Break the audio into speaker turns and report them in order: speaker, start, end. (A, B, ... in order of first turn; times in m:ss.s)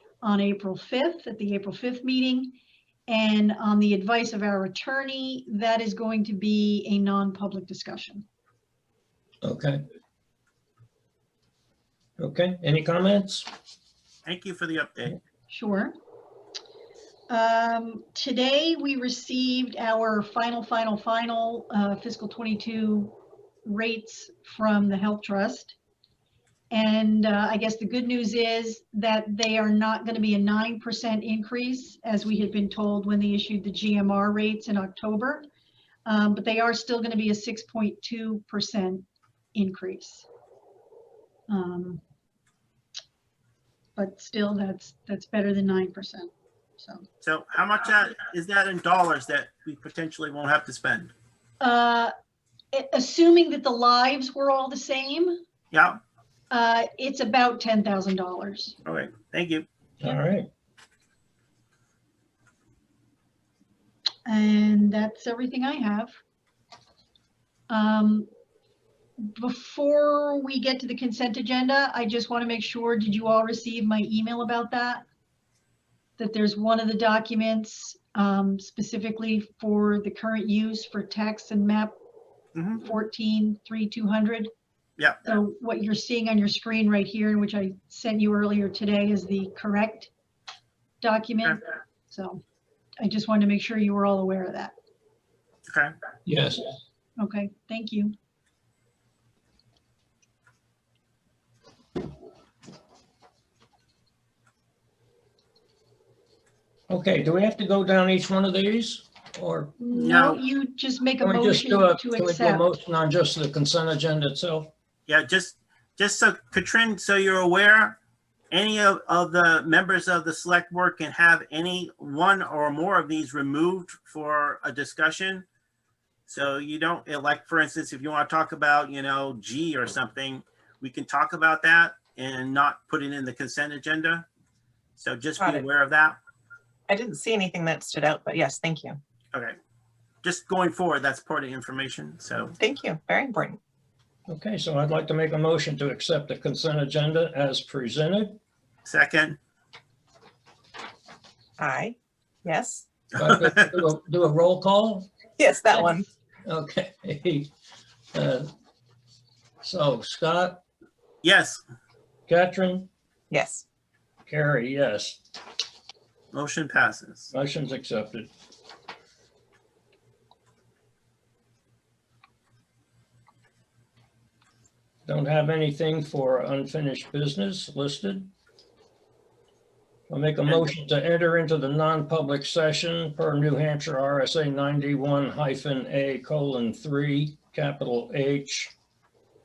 0:00.2-0:02.6 A
0:03.1-0:08.2 A
0:09.4-0:09.8 B
0:12.2-0:13.5 B
0:14.2-0:15.2 C
0:15.5-0:16.0 A
0:17.3-0:25.8 A
0:26.7-0:35.5 A
0:36.1-0:40.3 A
0:41.5-0:42.0 A
0:44.0-0:47.0 A
0:47.2-0:51.1 C
0:51.6-0:52.1 A
0:52.7-0:55.4 A
0:55.7-0:56.0 C
0:56.5-0:58.8 A
0:58.8-0:59.7 C
1:00.0-1:00.5 B
1:04.3-1:06.1 A
1:07.7-1:08.3 A
1:09.2-1:15.0 A
1:16.2-1:22.0 A
1:22.6-1:22.8 C
1:22.8-1:24.5 A
1:25.3-1:30.1 A
1:31.0-1:32.4 A
1:33.0-1:34.8 A
1:36.3-1:36.7 B
1:37.2-1:38.1 A
1:46.9-1:49.8 B
1:49.8-1:52.6 A
1:49.9-1:50.4 C
1:51.2-1:54.7 B
1:55.1-1:58.0 C
1:58.5-2:05.5 C
2:06.3-2:14.3 C
2:15.0-2:16.2 C
2:15.4-2:15.7 D
2:16.9-2:19.0 D
2:20.2-2:22.6 C
2:22.6-2:23.6 D
2:24.3-2:28.4 B
2:28.8-2:29.4 C
2:31.6-2:32.9 D
2:33.2-2:35.1 B
2:33.2-2:33.7 C
2:35.4-2:36.1 D
2:36.5-2:37.5 B
2:38.1-2:38.5 B
2:39.6-2:40.6 B
2:41.2-2:41.6 C
2:42.3-2:42.9 B
2:43.3-2:43.6 D
2:44.3-2:45.2 B
2:46.3-2:47.3 C
2:47.3-2:48.3 B
2:55.1-2:58.3 B
3:00.1-3:08.7 B